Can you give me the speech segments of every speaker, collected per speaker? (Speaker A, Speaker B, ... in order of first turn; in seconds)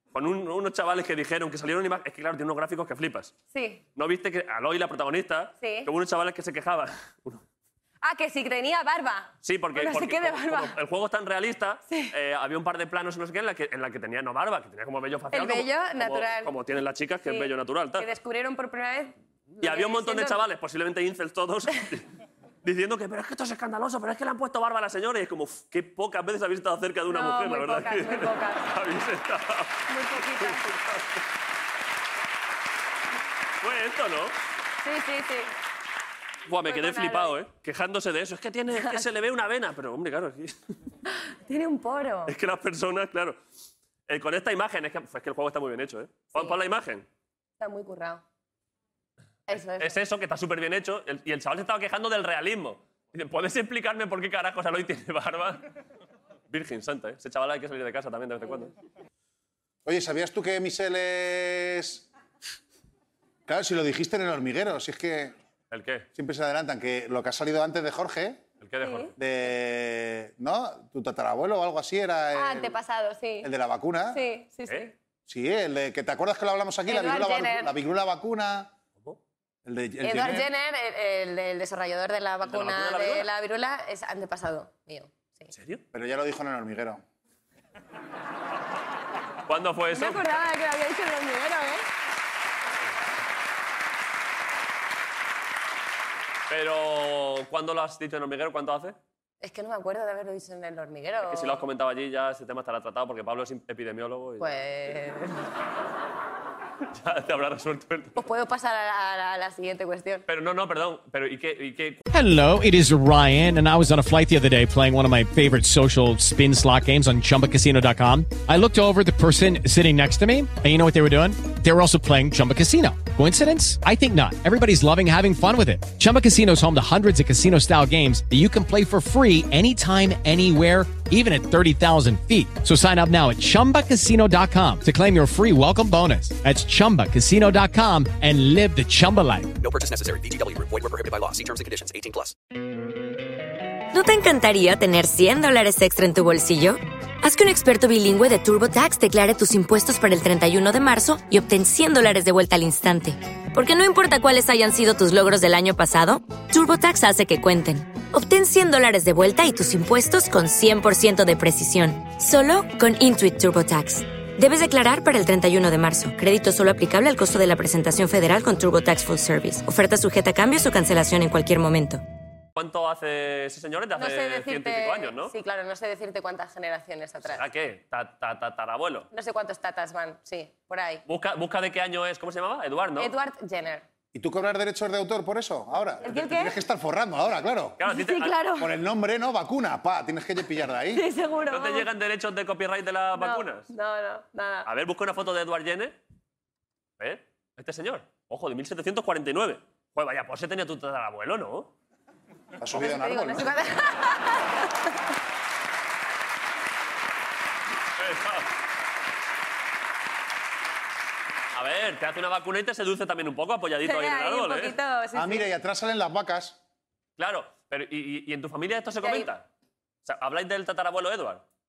Speaker A: 0.1-3.3, 3.9-7.4, 9.4-18.1, 19.6-22.1, 22.6-31.1, 33.6-34.4, 36.5-40.6, 42.3-43.4, 44.1-47.1, 49.8-55.6, 56.5-58.7, 65.7-66.1, 68.6-69.2, 82.4-83.3, 85.5-85.8, 89.5-90.3, 96.5-99.0, 101.2-104.5, 106.9-108.2, 110.3-112.0, 172.6-175.3, 177.2-179.1, 181.1-183.1, 187.8-188.4, 191.5-193.7, 194.7-196.0, 197.0-201.7, 208.0-208.5, 211.5-214.8, 217.2-219.4, 220.0-221.4
Speaker B: 3.5-3.8, 5.6-5.9, 8.0-10.8, 11.9-12.1, 15.3-16.5, 17.2-20.5, 27.1-28.7, 29.9-30.7, 34.8-35.5, 36.6-37.4, 38.7-39.0, 41.0-42.3, 47.6-48.2, 49.5-50.0, 68.8-69.1, 72.3-73.5, 74.1-74.9, 76.9-77.8, 80.0-85.5, 89.9-91.8, 99.4-101.6, 104.4-105.4, 108.2-110.2, 173.9-177.4, 179.1-181.0, 183.0-183.9, 186.0-186.6, 187.8-188.7, 190.9-191.9, 193.1-194.7, 202.7-204.9, 213.8-215.5, 219.0-219.3
Speaker C: 59.9-62.1, 63.5-65.3, 66.2-68.4, 69.2-72.8, 73.4-74.2, 75.2-78.7, 79.7-80.5, 85.9-87.0, 184.1-187.8, 188.6-191.1, 202.6-203.6, 215.1-216.6
Speaker D: 112.1-139.5
Speaker E: 139.6-142.3
Speaker F: 143.9-172.0